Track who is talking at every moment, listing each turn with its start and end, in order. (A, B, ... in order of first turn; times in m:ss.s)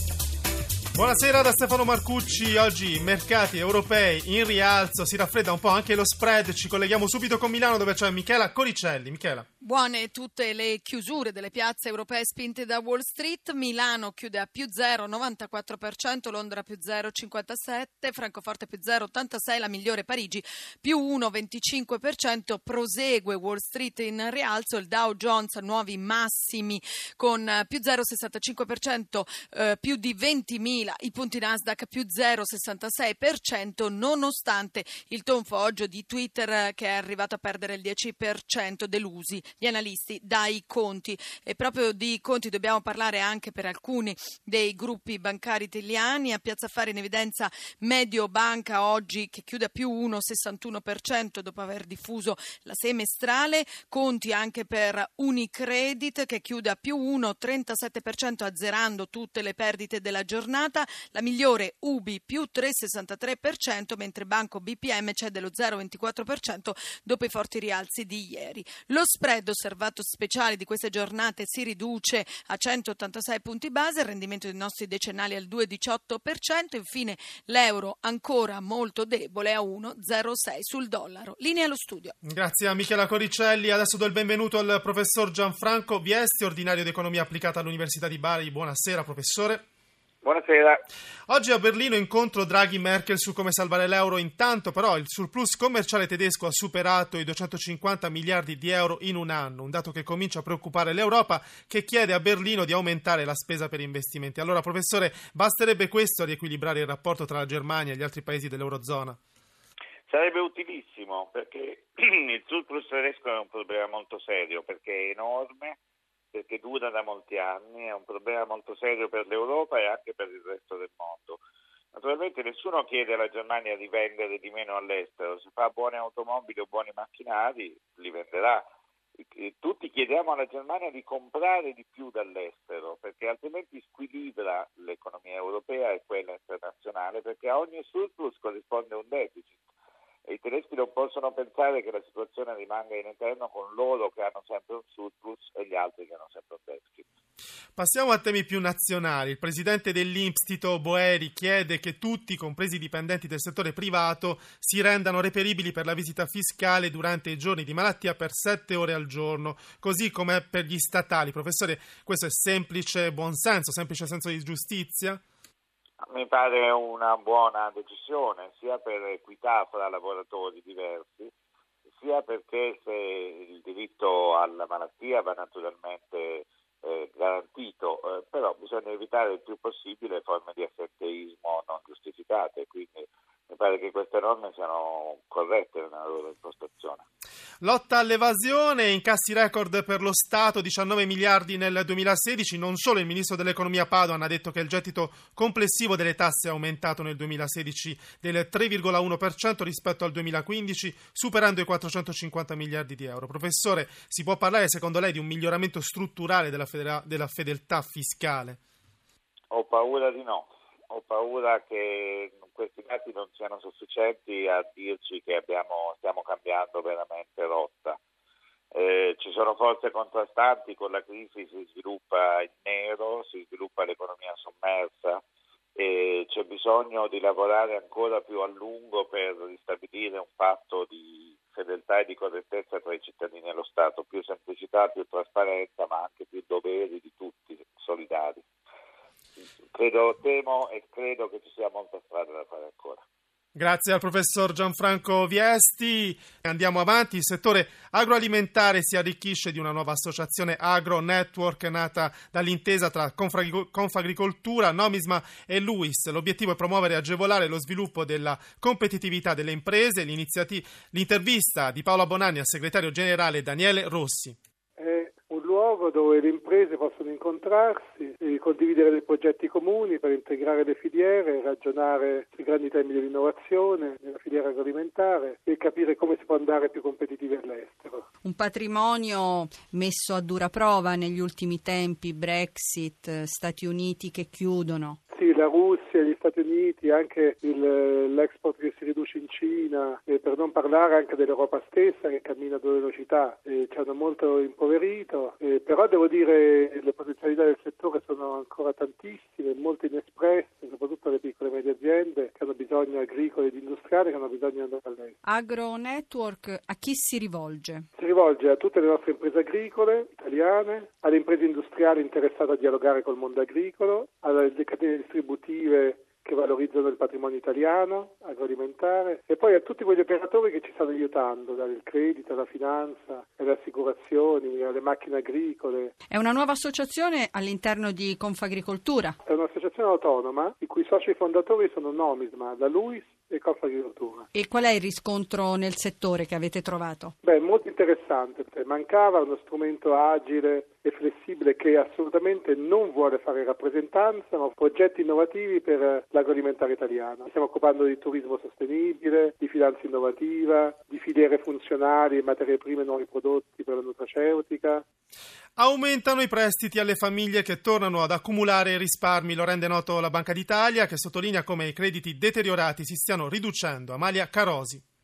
0:00.9-0:09.4 A
0:09.6-1:22.1 B
1:22.2-1:29.6 A
1:30.2-1:30.8 C
1:31.3-1:49.2 A
1:50.1-1:55.8 C
1:56.3-2:01.4 C
2:01.9-2:08.6 C
2:09.3-2:19.6 C
2:20.2-2:27.0 C
2:27.8-2:45.2 A
2:46.0-2:51.3 C
2:52.0-3:07.0 C
3:07.6-3:28.6 A
3:29.5-3:38.0 C
3:38.7-3:45.2 C
3:45.8-3:58.4 C
3:59.7-4:03.0 C
4:03.5-4:24.4 A
4:24.8-4:38.1 D
4:38.2-4:45.0 E
4:45.1-5:05.1 D
5:05.2-5:07.8 E
5:08.0-5:25.9 D
5:26.1-5:29.2 E
5:29.2-5:34.3 D
5:34.3-5:37.1 E
5:37.2-5:54.8 D
5:55.6-6:04.8 A